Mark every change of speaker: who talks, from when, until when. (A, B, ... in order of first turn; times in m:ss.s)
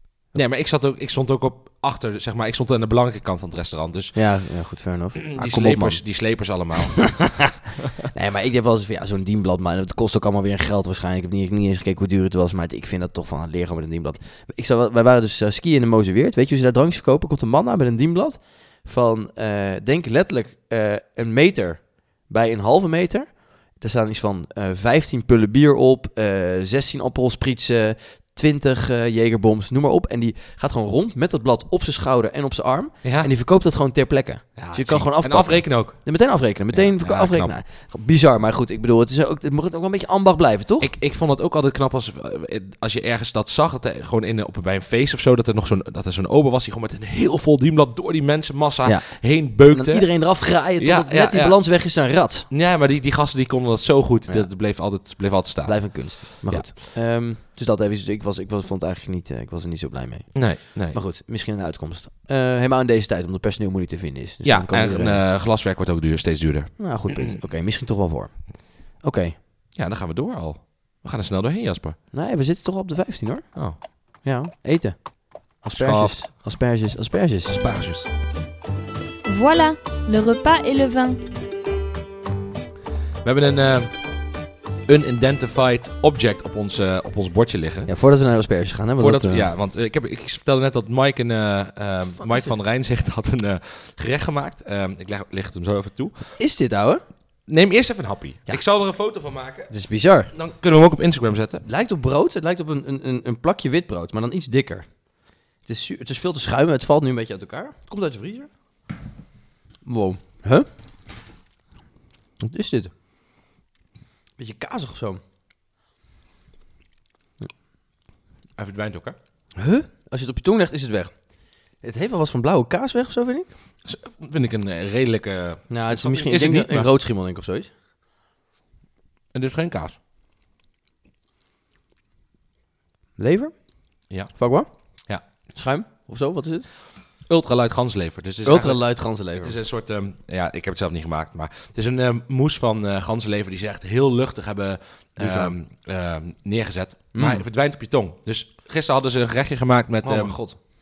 0:00.3-0:04.5 A
0:04.1-0:06.3 B
0:05.2-0:07.5 A
0:07.0-0:40.9 B
0:33.0-0:33.3 A
0:34.6-0:37.6 A
0:40.8-0:50.2 A
0:48.8-0:52.5 B
0:50.8-0:51.6 A
0:52.5-0:56.7 A
0:55.6-1:05.2 B
1:00.3-1:01.0 A
1:04.4-1:07.4 A
1:06.8-1:09.4 B
1:09.7-1:12.0 A
1:12.1-1:17.6 B
1:15.7-1:16.2 A
1:17.5-1:18.1 A
1:19.2-1:21.2 C
1:23.2-1:24.0 A
1:24.9-1:27.9 A
1:27.9-1:29.5 B
1:29.0-1:36.3 A
1:32.2-1:32.5 B
1:36.4-1:37.0 B
1:37.5-1:39.7 A
1:39.7-1:40.3 B
1:40.3-1:41.6 A
1:41.6-1:45.0 B
1:45.6-1:48.5 B
1:49.8-1:50.7 B
1:52.4-1:52.9 B
1:54.4-1:55.2 B
1:58.6-1:59.2 A
1:59.6-2:03.5 B
2:03.8-2:06.9 A
2:05.7-2:07.7 B
2:09.3-2:10.0 A
2:13.2-2:13.6 B
2:14.3-2:14.7 B
2:15.5-2:16.7 B
2:17.3-2:30.4 A
2:18.4-2:19.5 B
2:25.2-2:25.5 B
2:27.1-2:27.4 B
2:30.0-2:30.6 B